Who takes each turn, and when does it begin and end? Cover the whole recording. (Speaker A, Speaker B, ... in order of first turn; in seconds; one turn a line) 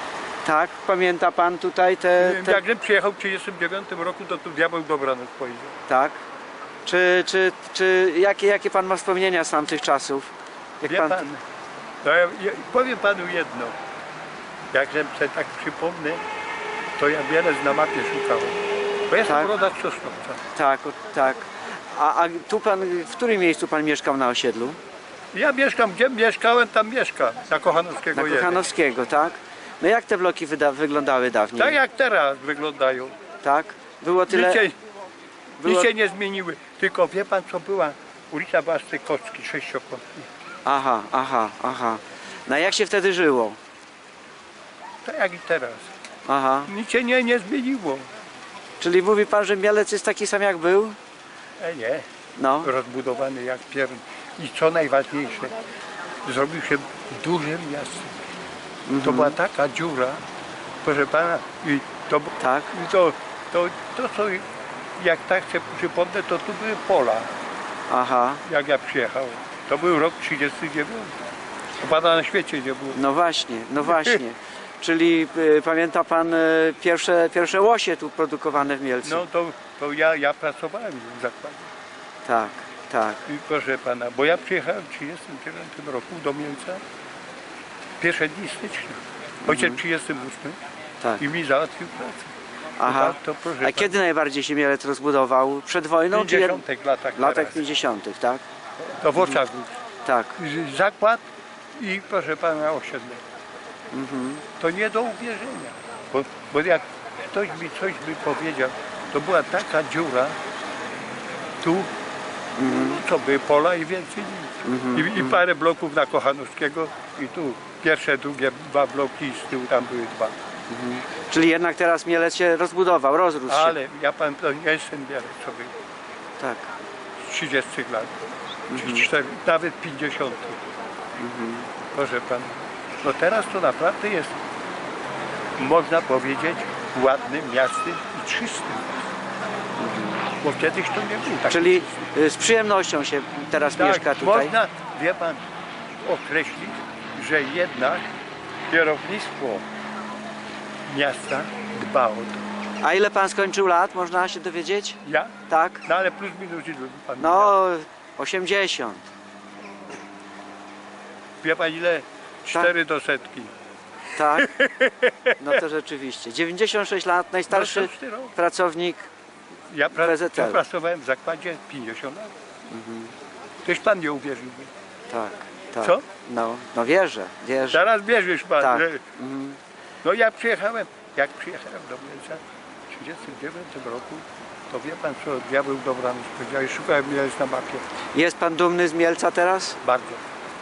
Speaker A: 0.4-2.6
Speaker B: 2.2-5.8
Speaker A: 5.9-6.2
Speaker A: 6.8-10.3
Speaker A: 10.8-11.2
Speaker B: 10.8-11.4
Speaker B: 12.0-13.7
Speaker B: 14.7-16.2
Speaker B: 17.0-18.6
Speaker B: 19.1-20.4
Speaker A: 19.2-19.5
Speaker A: 20.5-24.8
Speaker B: 25.3-28.7
Speaker A: 28.1-31.8
Speaker B: 31.6-33.1
Speaker A: 33.4-34.6
Speaker B: 34.3-34.8
Speaker A: 35.6-35.9
Speaker B: 35.6-40.3
Speaker A: 40.6-43.6
Speaker B: 45.0-45.9
Speaker A: 46.3-46.7
Speaker B: 46.7-48.1
Speaker A: 48.8-51.0
Speaker B: 51.6-52.0
Speaker A: 52.4-52.7
Speaker B: 52.6-55.5
Speaker B: 56.2-58.1
Speaker A: 58.9-59.4
Speaker B: 59.0-60.2
Speaker B: 60.8-64.4
Speaker A: 62.4-62.7
Speaker B: 65.0-67.3
Speaker A: 67.9-68.4
Speaker B: 68.5-71.2
Speaker B: 71.8-73.0
Speaker A: 72.9-79.2
Speaker B: 73.8-74.2
Speaker B: 79.0-81.7
Speaker A: 82.2-83.2
Speaker B: 83.2-86.8
Speaker B: 88.0-90.6
Speaker A: 89.5-89.8
Speaker B: 91.2-92.3
Speaker A: 92.8-96.6
Speaker B: 92.8-93.9
Speaker B: 96.1-97.7
Speaker A: 97.2-98.4
Speaker B: 99.0-99.7
Speaker A: 100.0-100.3
Speaker B: 100.4-101.2
Speaker B: 101.8-103.2
Speaker A: 103.9-104.4
Speaker B: 104.6-110.4
Speaker B: 111.6-111.9
Speaker A: 112.6-113.0
Speaker B: 112.6-120.3
Speaker A: 114.6-115.4
Speaker A: 120.7-123.8
Speaker B: 123.5-125.7
Speaker A: 126.4-126.7
Speaker B: 127.2-128.1
Speaker A: 128.7-129.1
Speaker B: 128.7-130.6
Speaker A: 131.2-131.7
Speaker B: 131.9-134.4
Speaker B: 135.6-139.1
Speaker A: 139.8-140.2
Speaker B: 140.4-142.0
Speaker A: 141.5-144.5
Speaker B: 143.7-145.4
Speaker B: 146.0-148.1
Speaker B: 148.7-149.6
Speaker A: 148.8-149.6
Speaker B: 150.9-152.4
Speaker A: 152.8-155.8
Speaker B: 155.0-155.3
Speaker B: 155.8-157.6
Speaker A: 157.2-159.1
Speaker B: 161.4-163.5
Speaker A: 164.1-164.5
Speaker B: 164.4-165.3
Speaker A: 165.3-169.1
Speaker B: 167.5-168.3
Speaker B: 169.7-172.3
Speaker A: 169.9-170.6
Speaker A: 172.7-173.1
Speaker B: 173.6-174.7
Speaker A: 175.1-177.9
Speaker B: 177.7-179.0
Speaker A: 178.6-179.6
Speaker B: 180.0-187.8
Speaker A: 188.1-189.8
Speaker B: 189.8-190.2